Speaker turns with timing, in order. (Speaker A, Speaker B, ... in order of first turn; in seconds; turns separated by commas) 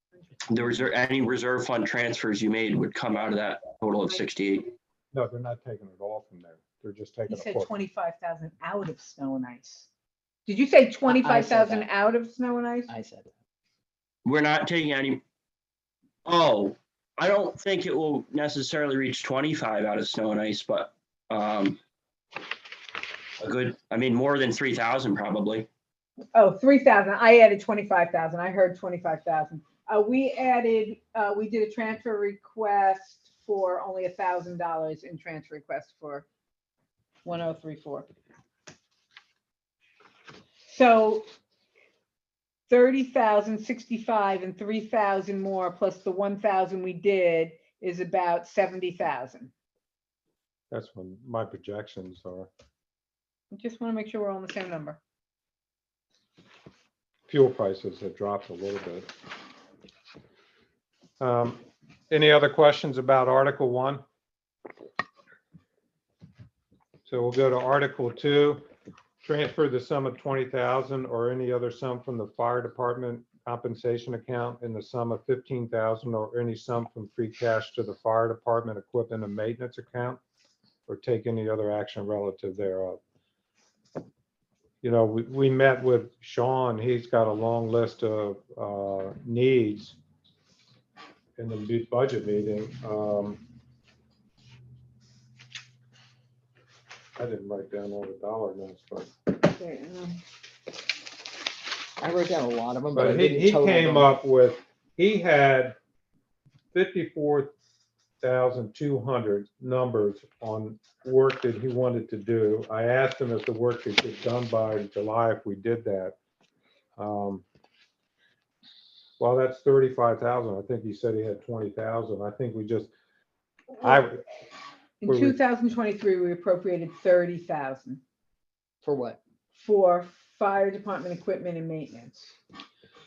Speaker A: 0.5-4.7, Speaker B: 5.1-7.7, Speaker C: 7.3-9.9, Speaker C: 10.5-12.9, Speaker D: 11.1-11.9, Speaker D: 12.9-13.3, Speaker A: 14.2-15.2, Speaker A: 16.2-21.8, Speaker A: 23.4-25.7, Speaker C: 26.3-36.3, Speaker C: 37.2-38.1, Speaker C: 40.7-41.3, Speaker C: 42.7-49.5, Speaker B: 50.7-52.5, Speaker C: 53.5-55.0, Speaker B: 57.3-59.1, Speaker B: 61.2-64.0, Speaker B: 67.1-68.6, Speaker B: 69.2-80.2, Speaker B: 80.9-83.0, Speaker B: 84.8-90.0, Speaker B: 91.4-93.4, Speaker B: 97.2-99.1, Speaker C: 99.5-100.2, Speaker D: 102.0-104.1, Speaker B: 102.9-105.8, Speaker B: 106.7-107.5, Speaker B: 108.2-116.2, Speaker B: 117.0-117.5, Speaker B: 119.2-122.9, Speaker B: 123.8-124.2, Speaker C: 125.0-128.0, Speaker B: 125.1-125.4, Speaker D: 128.8-129.2, Speaker C: 129.5-132.3